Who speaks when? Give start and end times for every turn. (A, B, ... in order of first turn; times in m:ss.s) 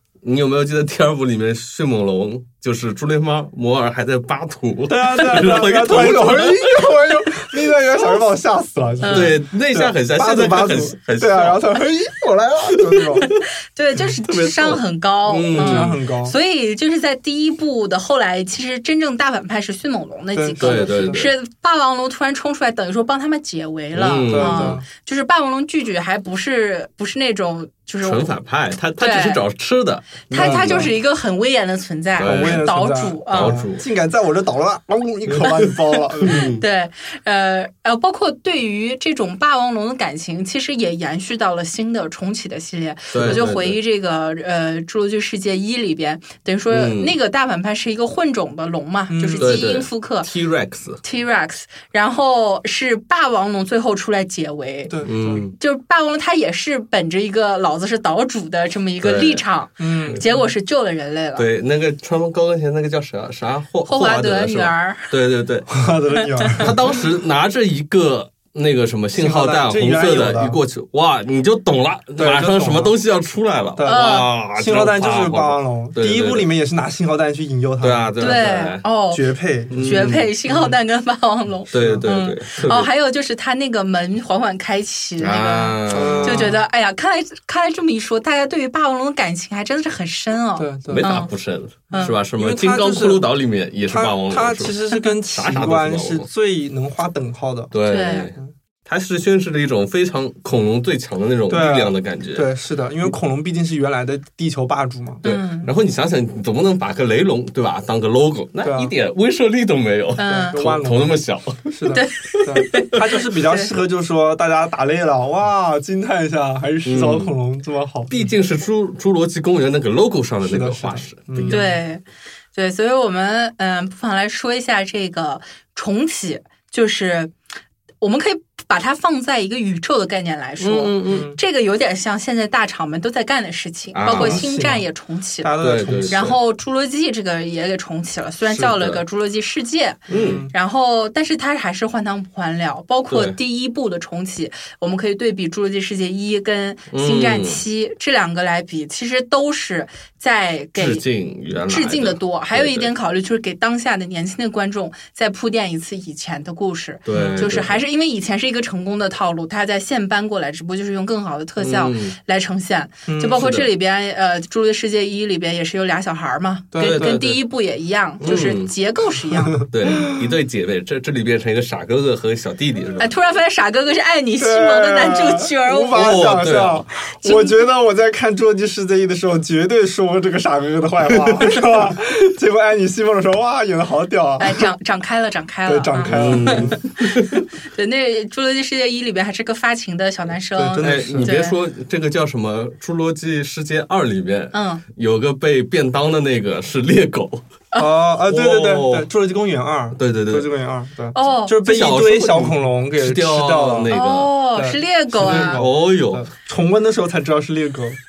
0:00.2-0:07.0 A
0:04.9-0:13.3 B
0:09.0-0:09.4 C
0:09.1-0:11.6 A
0:12.9-0:13.2 A
0:13.2-0:28.3 C
0:14.3-0:16.0 A
0:15.5-0:16.4 B
0:20.3-0:21.2 B
0:20.6-0:21.3 A
0:23.9-0:24.8 A
0:24.3-0:24.9 B
0:28.0-0:30.9 A
0:29.0-0:29.4 C
0:30.3-0:33.6 C
0:30.3-0:30.9 B
0:32.2-0:32.7 A
0:32.2-0:36.4 B
0:33.3-0:33.8 A
0:35.3-0:36.6 A
0:36.3-0:50.3 C
0:43.1-0:43.8 A
0:43.2-0:43.4 B
0:46.7-0:47.2 A
0:49.1-0:49.7 B
0:49.4-0:51.0 A
0:51.0-0:55.0 C
0:54.9-0:55.5 B
0:55.0-0:55.5 A
0:55.6-1:01.5 C
0:59.0-0:59.4 A
0:59.8-1:00.5 B
1:01.4-1:05.7 A
1:03.9-1:05.1 C
1:05.7-1:06.8 B
1:06.2-1:06.7 C
1:06.6-1:16.5 A
1:09.2-1:10.6 B
1:12.2-1:13.0 B
1:13.8-1:18.4 B
1:13.9-1:14.3 C
1:17.8-1:18.8 A
1:18.2-1:31.3 C
1:19.1-1:20.8 B
1:19.7-1:20.3 A
1:21.7-1:22.9 A
1:21.7-1:22.1 B
1:25.2-1:26.5 A
1:25.9-1:26.6 B
1:30.6-1:31.1 B
1:30.9-1:36.3 A
1:31.9-1:32.2 C
1:32.0-1:33.3 B
1:33.9-1:37.7 B
1:37.7-1:42.5 A
1:37.9-1:38.3 C
1:41.5-1:45.3 B
1:45.2-1:52.7 A
1:45.2-1:45.7 C
1:48.6-1:48.9 B
1:50.2-1:50.6 C
1:50.3-1:58.3 B
1:51.9-1:53.7 C
1:56.8-1:57.3 A
1:58.1-2:01.7 A
2:00.4-2:01.8 B
2:01.5-2:02.0 C
2:02.5-2:07.3 C
2:08.0-2:15.5 C
2:10.6-2:11.3 A
2:11.1-2:11.4 B
2:14.0-2:14.4 A
2:14.1-2:14.9 B
2:15.4-2:16.3 B
2:15.6-2:16.4 A
2:16.1-2:31.0 C
2:18.5-2:19.0 A
2:20.1-2:20.5 A
2:20.1-2:20.5 B
2:23.1-2:23.4 A
2:26.9-2:27.6 A
2:30.8-2:32.9 A
2:31.7-2:49.6 C
2:37.1-2:37.8 A
2:37.1-2:37.6 B
2:41.6-2:42.2 A
2:43.1-2:43.5 B
2:43.4-2:43.7 A
2:46.7-2:47.1 B
2:46.8-2:47.4 A
2:48.2-2:48.7 A
2:49.6-2:50.2 B
2:49.6-2:53.1 A
2:53.0-2:56.2 C
2:54.4-3:04.7 B
2:55.9-2:56.9 A
2:57.2-2:57.6 C
3:04.4-3:07.2 C
3:05.7-3:06.8 B
3:06.0-3:07.4 A
3:07.7-3:11.6 C
3:10.6-3:11.3 B
3:10.8-3:17.5 A
3:14.5-3:14.8 C
3:17.8-3:23.9 B
3:18.3-3:19.1 A
3:20.0-3:20.5 A
3:21.2-3:21.6 C
3:21.6-3:24.4 A
3:23.9-3:25.6 C
3:24.6-3:28.0 B
3:25.2-3:26.3 A